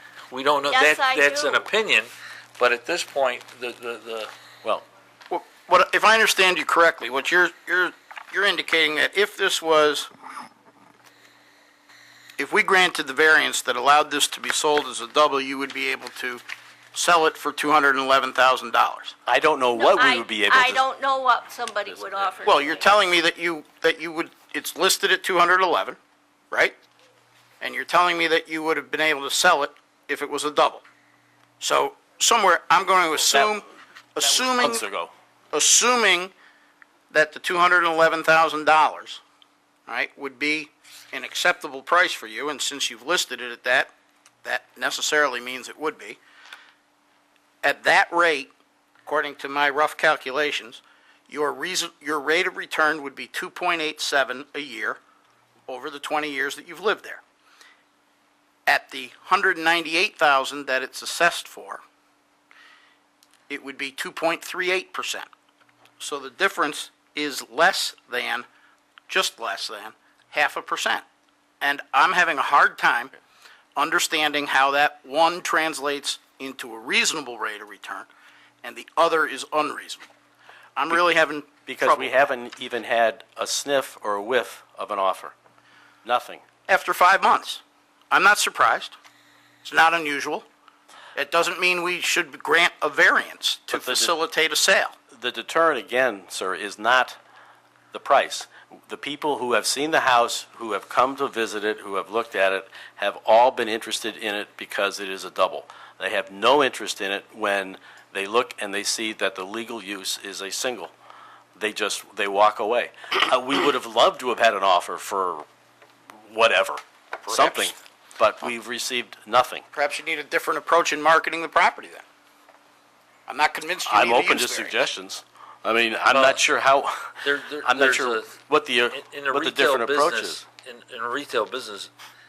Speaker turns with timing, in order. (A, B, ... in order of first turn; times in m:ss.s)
0:00.3-0:04.3 A
0:00.7-0:01.7 B
0:05.3-0:10.1 C
0:12.4-0:19.2 C
0:19.3-0:20.8 D
0:19.8-0:22.9 B
0:21.9-0:22.3 D
0:22.4-0:26.0 C
0:26.5-0:26.8 C
0:27.6-0:30.8 C
0:31.6-0:34.8 C
0:33.2-0:33.6 D
0:34.2-0:35.1 D
0:35.5-0:36.3 C
0:37.1-0:39.2 C
0:39.9-0:43.9 C
0:44.4-0:46.2 C
0:47.6-0:48.5 C
0:49.0-0:55.0 C
0:55.7-0:57.2 C
0:58.7-1:01.8 C
1:03.5-1:05.3 C
1:06.0-1:08.5 C
1:09.1-1:11.0 C
1:11.6-1:13.1 C
1:13.8-1:18.1 C
1:18.6-1:20.1 C
1:20.8-1:22.2 C
1:21.7-1:25.3 D
1:26.0-1:26.4 D
1:26.7-1:29.0 C
1:29.6-1:30.5 C
1:31.2-1:35.0 C
1:33.7-1:34.1 D
1:35.1-1:37.2 D
1:37.9-1:50.9 D
1:51.6-1:55.4 D
1:56.3-1:59.7 D
1:57.3-1:57.7 C
1:59.7-2:02.0 C
2:03.3-2:04.8 C
2:03.8-2:10.4 D
2:06.1-2:06.4 A
2:07.2-2:08.4 A
2:08.9-2:11.9 A